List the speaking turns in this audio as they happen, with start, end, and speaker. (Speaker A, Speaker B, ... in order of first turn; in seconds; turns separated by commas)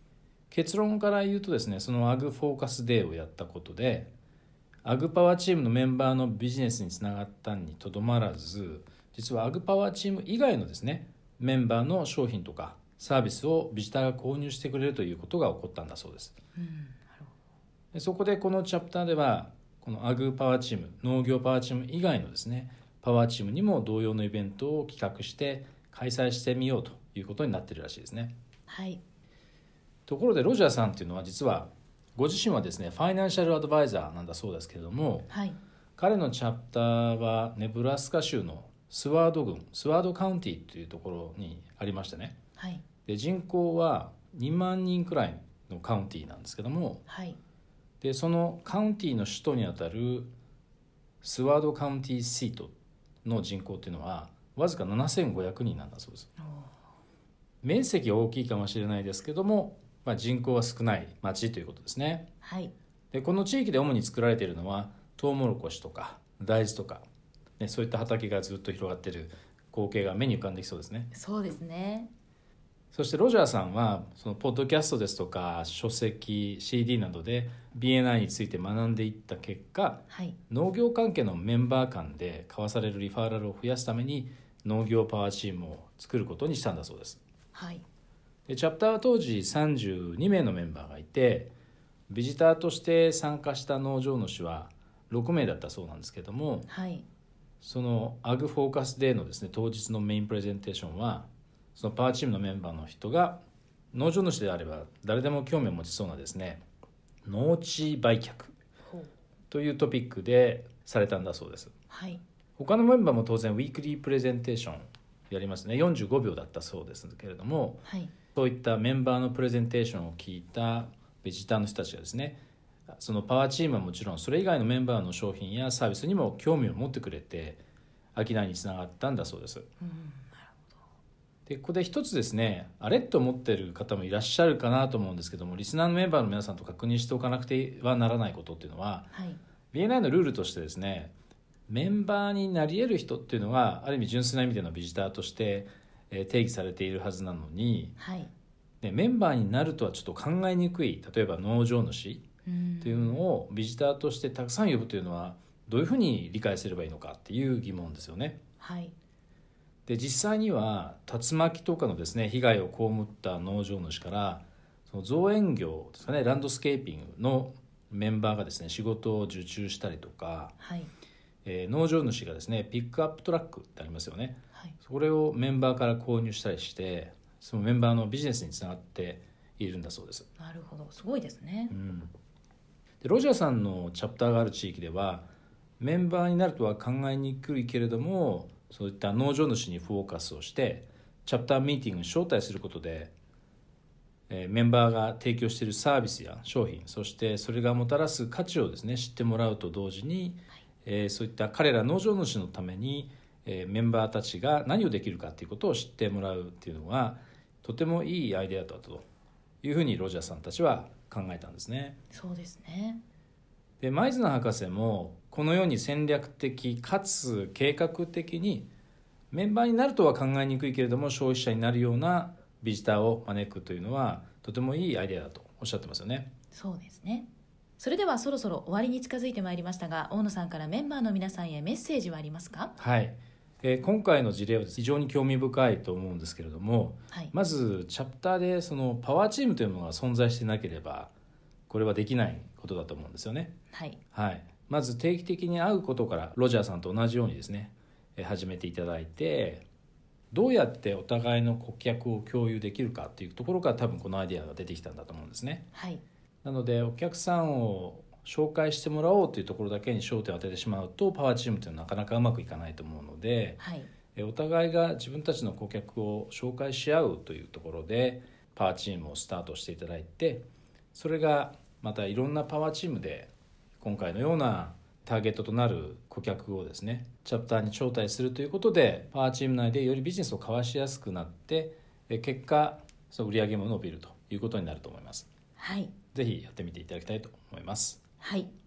Speaker A: 0.5-4.1, Speaker A: 4.8-16.4, Speaker B: 16.6-17.3, Speaker A: 17.9-28.3, Speaker B: 28.7-29.0, Speaker A: 30.1-35.3, Speaker B: 35.3-35.6, Speaker A: 36.0-42.4, Speaker B: 42.6-42.8, Speaker A: 43.1-47.0, Speaker B: 47.1-47.4, Speaker A: 48.0-50.3, Speaker A: 51.2-52.7, Speaker A: 53.2-56.3, Speaker B: 56.4-56.8, Speaker A: 57.6-62.3, Speaker B: 62.4-62.7, Speaker A: 63.1-67.0, Speaker A: 67.6-71.1, Speaker B: 71.1-72.1, Speaker A: 72.9-87.2, Speaker B: 80.1-80.4, Speaker B: 87.5-87.8, Speaker A: 88.5-91.5, Speaker A: 92.1-96.7, Speaker B: 96.7-97.0, Speaker A: 97.6-103.4, Speaker A: 103.9-106.6, Speaker A: 107.2-108.6, Speaker B: 108.9-109.1, Speaker A: 109.5-111.7, Speaker B: 111.9-112.2, Speaker A: 112.6-117.8, Speaker B: 117.8-118.1, Speaker A: 118.3-127.6, Speaker A: 128.2-129.7, Speaker B: 129.8-130.7, Speaker A: 131.5-139.1, Speaker B: 139.1-139.4, Speaker A: 139.7-141.1, Speaker A: 141.7-148.0, Speaker B: 148.0-148.3, Speaker A: 148.8-152.2, Speaker B: 152.4-153.2, Speaker A: 152.8-158.4, Speaker B: 158.6-158.9, Speaker A: 159.9-170.6, Speaker B: 170.6-170.9, Speaker A: 171.4-180.3, Speaker B: 180.4-181.7, Speaker A: 181.7-182.1, Speaker A: 183.0-185.3, Speaker A: 185.8-193.1, Speaker A: 194.3-209.1, Speaker A: 209.6-212.0, Speaker B: 212.1-213.0, Speaker A: 213.8-218.7, Speaker A: 219.3-226.3, Speaker B: 226.5-227.3, Speaker B: 227.8-232.7, Speaker A: 232.8-241.1, Speaker A: 241.7-243.5, Speaker B: 243.7-244.0, Speaker A: 244.1-249.7, Speaker A: 250.3-255.7, Speaker B: 255.7-256.0, Speaker A: 256.4-263.6, Speaker B: 263.6-263.9, Speaker A: 264.1-270.4, Speaker A: 270.9-285.3, Speaker B: 285.6-285.9, Speaker A: 286.1-288.0, Speaker B: 288.2-288.5